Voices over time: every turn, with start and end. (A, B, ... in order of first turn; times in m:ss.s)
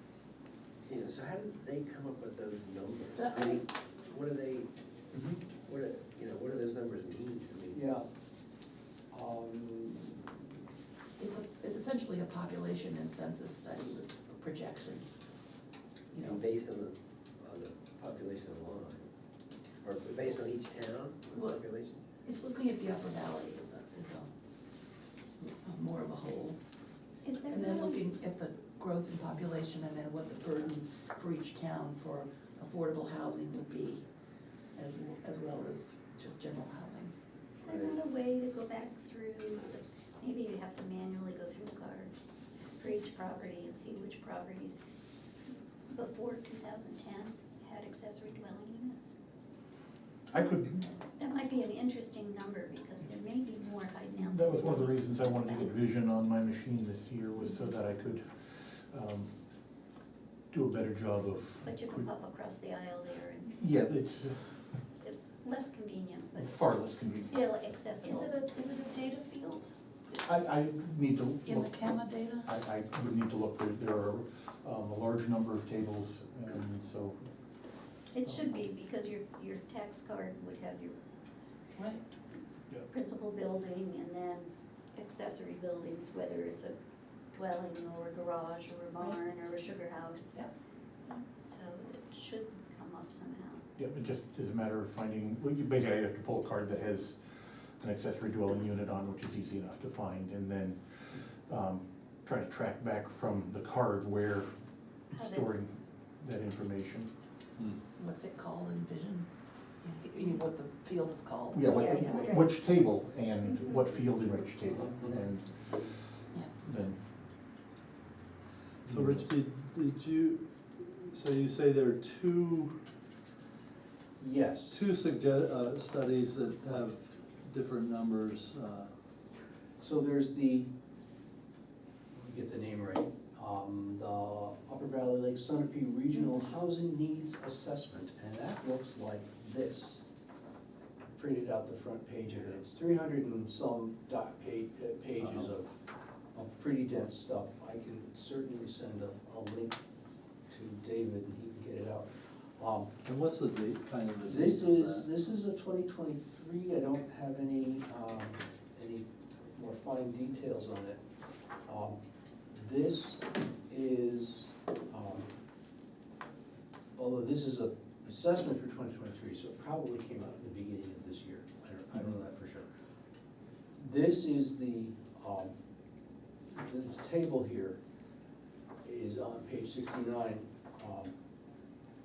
0:00.8-0:07.8 A
0:03.2-0:03.6 B
0:07.7-0:08.1 C
0:09.1-0:10.3 C
0:11.2-0:15.0 B
0:16.1-0:16.4 B
0:16.2-0:19.1 A
0:19.8-0:22.0 A
0:21.3-0:21.6 B
0:22.2-0:24.3 B
0:25.4-0:26.6 B
0:27.2-0:28.0 D
0:27.5-0:34.0 B
0:34.8-0:37.1 B
0:37.5-0:42.2 D
0:37.7-0:37.9 A
0:42.8-0:44.8 D
0:45.9-0:49.2 D
0:50.3-0:50.9 E
0:51.1-0:55.7 D
0:54.2-0:59.3 E
1:00.5-1:02.1 E
1:01.6-1:03.5 D
1:03.5-1:04.6 E
1:05.0-1:06.7 D
1:06.3-1:07.7 E
1:07.2-1:08.4 D
1:07.3-1:09.7 B
1:10.2-1:17.2 E
1:11.4-1:12.5 B
1:18.1-1:21.0 D
1:18.2-1:18.6 E
1:21.7-1:22.0 B
1:22.9-1:26.8 D
1:27.3-1:30.3 D
1:31.4-1:33.6 D
1:33.8-1:37.2 E
1:37.8-1:44.5 E
1:45.1-1:45.6 D
1:45.1-1:47.1 E
1:48.0-1:49.3 B
1:49.8-1:52.4 B
1:51.5-1:55.9 E
1:51.6-1:52.5 D
1:56.6-1:57.0 E
1:58.8-1:59.2 E
1:58.8-2:02.7 F
2:04.2-2:04.8 C
2:04.7-2:08.9 F
2:09.8-2:10.7 C
2:12.1-2:20.0 C
2:21.2-2:25.7 C
2:26.3-2:29.8 C
2:30.5-2:32.9 C
2:33.0-2:35.1 F
2:34.2-2:41.0 C
2:41.7-2:42.0 C
2:42.5-2:45.3 C
2:47.0-2:52.7 C
2:53.8-2:55.5 C
2:56.5-2:57.8 C
2:58.8-3:01.1 C